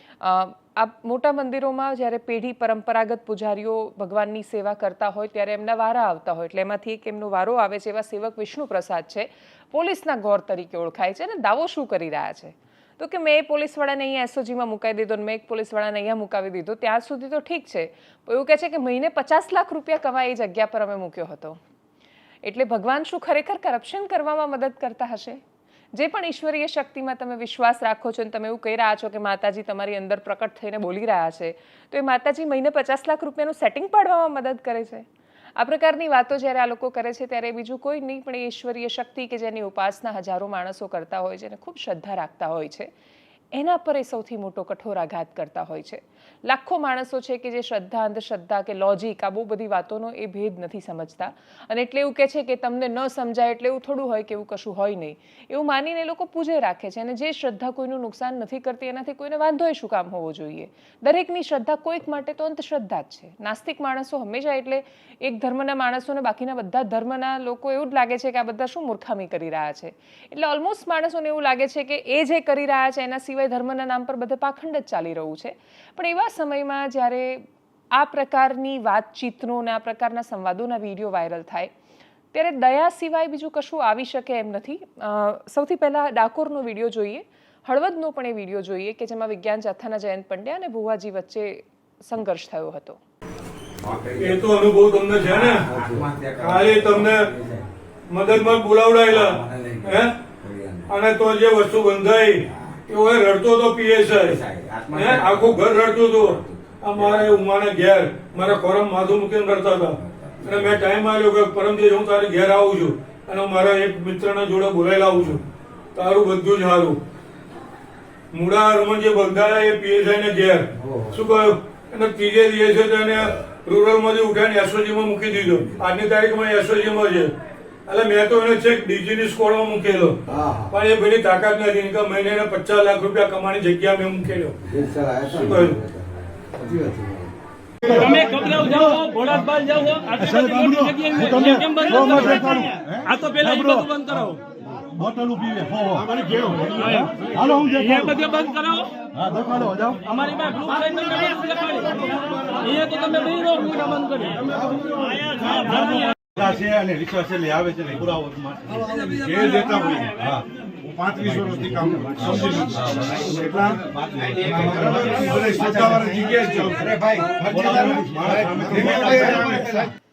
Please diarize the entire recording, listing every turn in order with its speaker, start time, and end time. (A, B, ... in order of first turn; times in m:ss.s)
0:00.2-0:21.6 A
0:22.4-0:25.4 A
0:25.9-0:35.0 A
0:35.6-0:42.9 A
0:43.5-1:21.7 A
1:22.3-1:33.0 A
1:34.2-1:35.6 B
1:36.3-1:37.3 B
1:38.1-1:40.2 B
1:40.8-1:55.4 B
1:55.9-1:57.0 B
1:58.3-2:07.3 B
2:07.9-2:14.6 B
2:15.1-2:15.8 B
2:18.0-2:24.4 C
2:20.4-2:22.8 D
2:23.5-2:23.8 D
2:24.9-2:28.1 D
2:28.0-2:28.9 C
2:29.3-2:30.0 D
2:30.1-2:34.4 C
2:35.8-2:40.4 D
2:41.0-2:42.7 D
2:43.4-2:46.8 D
2:47.5-2:49.7 D